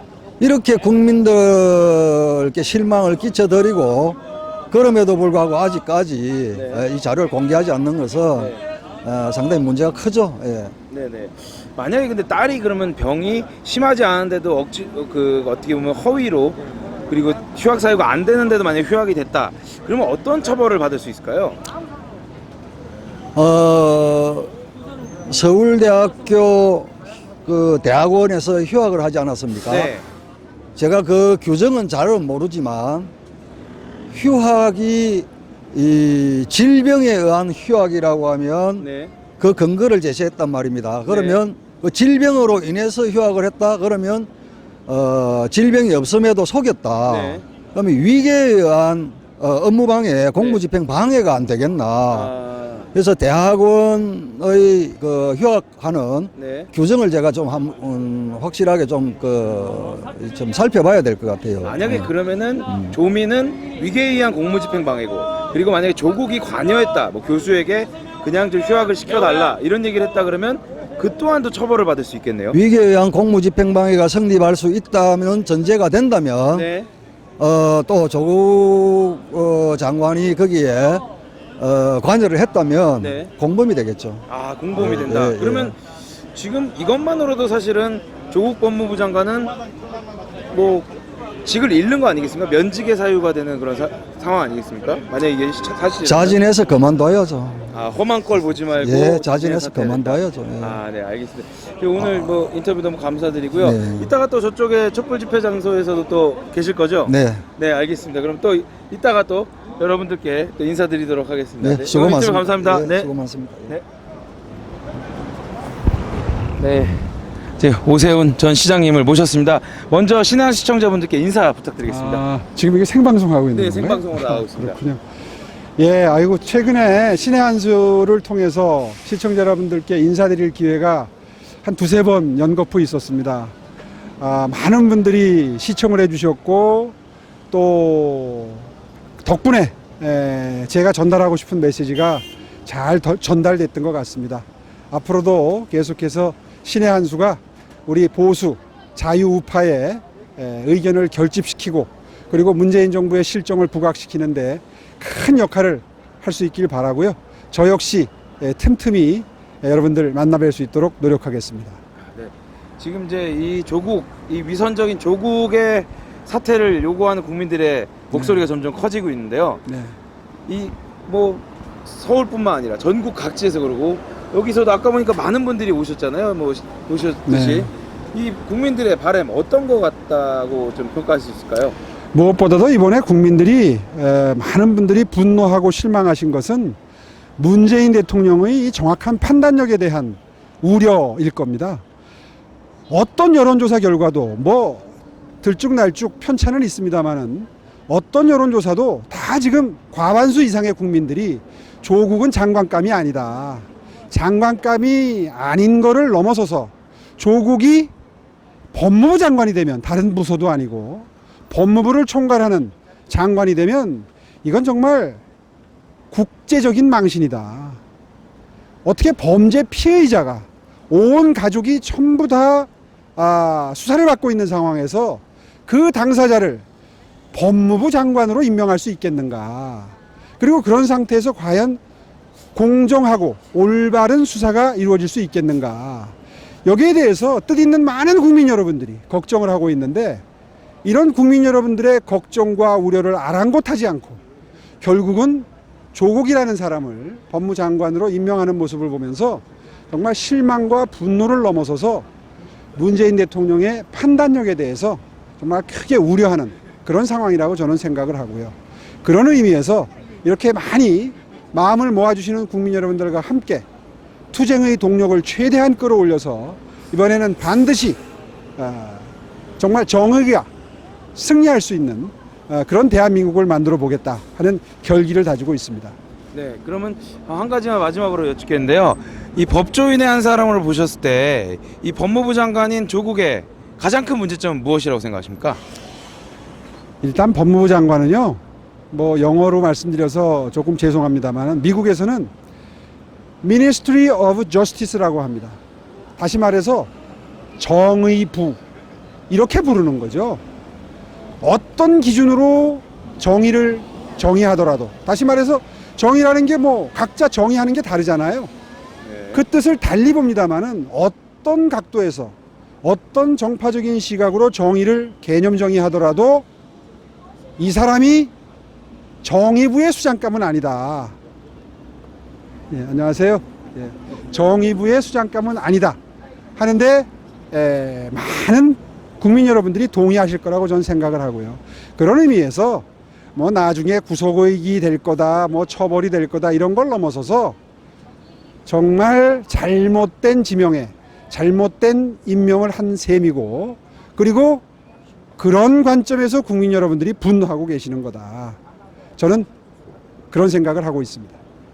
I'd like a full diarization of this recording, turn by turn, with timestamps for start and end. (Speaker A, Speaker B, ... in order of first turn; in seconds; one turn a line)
Speaker A: 0.4-4.2
Speaker A: 4.7-10.7
Speaker B: 6.5-6.8
Speaker B: 10.9-21.6
Speaker A: 23.3-24.5
Speaker A: 25.2-29.9
Speaker B: 29.7-30.0
Speaker A: 30.7-33.1
Speaker A: 34.1-44.3
Speaker B: 38.8-39.1
Speaker B: 41.1-41.4
Speaker A: 44.9-52.3
Speaker B: 47.1-47.4
Speaker B: 50.4-50.6
Speaker B: 52.1-52.9
Speaker A: 52.9-62.1
Speaker B: 56.4-56.7
Speaker B: 61.6-72.6
Speaker A: 62.6-63.0
Speaker A: 72.5-76.7
Speaker B: 76.5-76.9
Speaker A: 77.4-81.0
Speaker A: 81.6-85.7
Speaker B: 83.0-83.3
Speaker B: 84.3-85.8
Speaker B: 86.3-89.5
Speaker B: 90.5-90.9
Speaker B: 91.4-96.4
Speaker A: 96.0-97.7
Speaker B: 97.7-113.1
Speaker A: 98.8-100.8
Speaker A: 102.0-102.3
Speaker A: 103.5-104.1
Speaker A: 107.0-107.4
Speaker A: 111.6-113.8
Speaker B: 116.6-122.2
Speaker C: 121.9-125.0
Speaker B: 123.5-124.8
Speaker C: 125.8-131.1
Speaker C: 131.6-133.5
Speaker C: 134.2-136.9
Speaker C: 137.5-138.7
Speaker C: 139.2-161.8
Speaker B: 162.1-169.6
Speaker C: 168.1-168.4
Speaker C: 169.7-169.9
Speaker B: 170.5-181.8
Speaker C: 177.3-177.7
Speaker C: 182.1-186.8
Speaker C: 187.4-191.8
Speaker C: 192.9-194.8
Speaker C: 195.4-207.9
Speaker C: 208.7-215.2
Speaker C: 216.1-217.8
Speaker C: 218.8-226.6
Speaker C: 227.3-231.8
Speaker C: 232.5-240.2
Speaker C: 240.8-244.2
Speaker C: 244.8-252.1
Speaker C: 252.8-263.6
Speaker C: 264.3-268.0
Speaker C: 268.6-270.5
Speaker C: 271.1-275.9
Speaker B: 276.3-285.6
Speaker C: 287.0-292.3
Speaker C: 293.4-295.6
Speaker C: 296.2-296.9
Speaker C: 297.6-298.6
Speaker C: 299.3-300.4
Speaker C: 301.4-308.5
Speaker B: 309.0-309.4
Speaker C: 309.3-316.4
Speaker C: 317.6-318.3
Speaker C: 319.2-321.1
Speaker C: 322.7-326.0
Speaker C: 326.6-337.6
Speaker C: 338.6-344.6
Speaker C: 345.4-348.6
Speaker C: 349.2-349.5
Speaker C: 350.3-351.4